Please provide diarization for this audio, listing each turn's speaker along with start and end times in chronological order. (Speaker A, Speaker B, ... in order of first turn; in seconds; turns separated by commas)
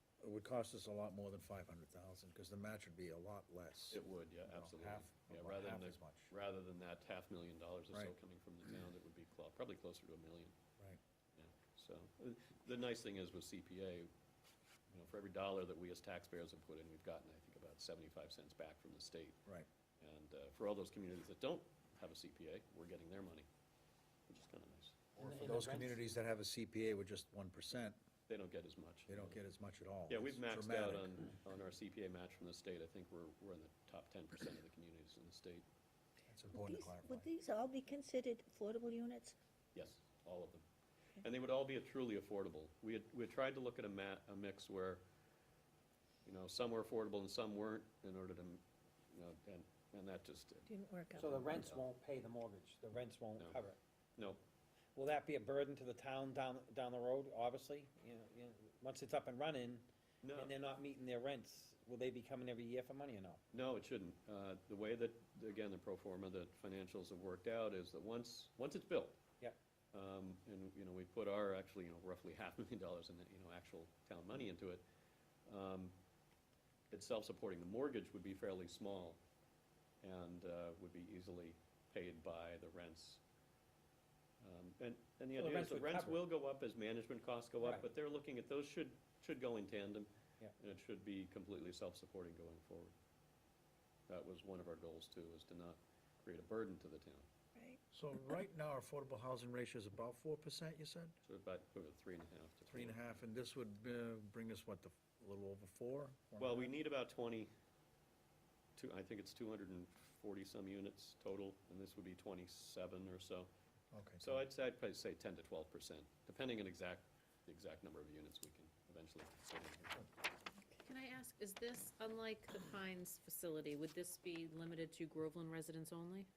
Speaker A: 0.2-6.3, Speaker B: 3.9-10.5, Speaker B: 11.3-14.1, Speaker B: 14.9-19.4, Speaker B: 20.0-23.5, Speaker B: 24.3-25.1, Speaker C: 25.2-26.0, Speaker A: 25.2-28.0, Speaker B: 28.3-29.4, Speaker A: 29.1-31.2, Speaker B: 30.1-35.6, Speaker A: 36.3-37.3, Speaker D: 36.5-39.4, Speaker B: 39.7-40.6, Speaker B: 41.2-45.0, Speaker B: 46.2-50.7, Speaker D: 50.7-51.7, Speaker C: 51.1-53.8, Speaker B: 51.2-51.8, Speaker C: 55.0-63.4, Speaker B: 60.2-60.5, Speaker B: 63.5-69.2, Speaker B: 69.9-74.8, Speaker B: 75.5-75.9, Speaker B: 76.9-79.2, Speaker B: 80.0-83.2, Speaker B: 84.4-92.9, Speaker C: 85.3-86.2, Speaker B: 94.1-97.3, Speaker A: 97.9-101.1, Speaker B: 101.2-103.0, Speaker A: 102.7-106.7, Speaker B: 106.4-107.5, Speaker B: 108.8-113.5, Speaker A: 113.9-114.4, Speaker B: 114.2-120.1, Speaker E: 120.8-126.3